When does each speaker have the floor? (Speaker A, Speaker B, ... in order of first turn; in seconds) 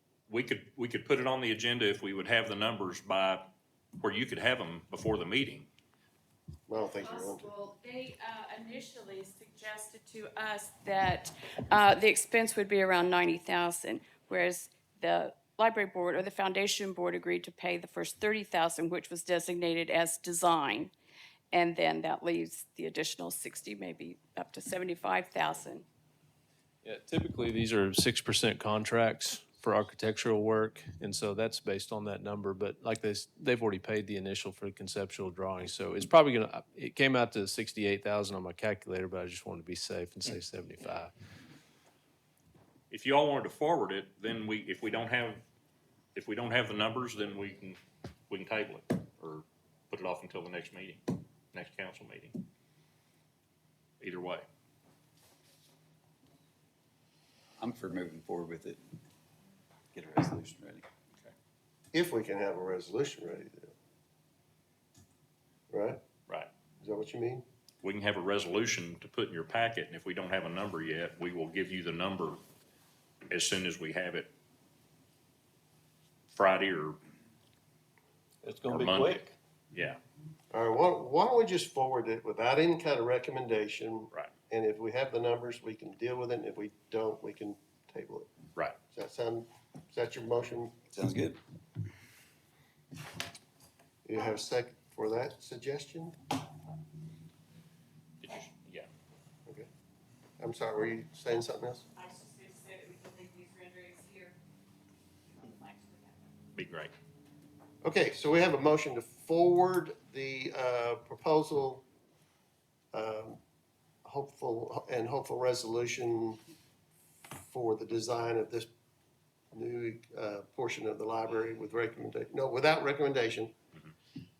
Speaker A: 0.3-5.7, 42.9-45.4, 46.1-52.4, 54.0-54.5, 67.8-72.4, 73.3-74.3, 76.3-77.0, 78.7-80.0, 98.2-98.9, 106.5-106.9
Speaker B: 6.7-7.5, 61.9-63.7, 65.7-66.0, 66.8-67.4, 80.5-88.3, 88.9-90.8, 94.0-96.2, 100.4-101.8, 107.8-111.8, 112.9-113.4, 114.0-116.4, 117.3-118.7, 119.5-123.5
Speaker C: 7.1-20.9, 21.5-25.9, 102.0-104.3, 105.3-106.1
Speaker D: 26.8-41.1
Speaker E: 57.6-58.8, 59.9-60.9, 78.4-79.3, 90.9-91.4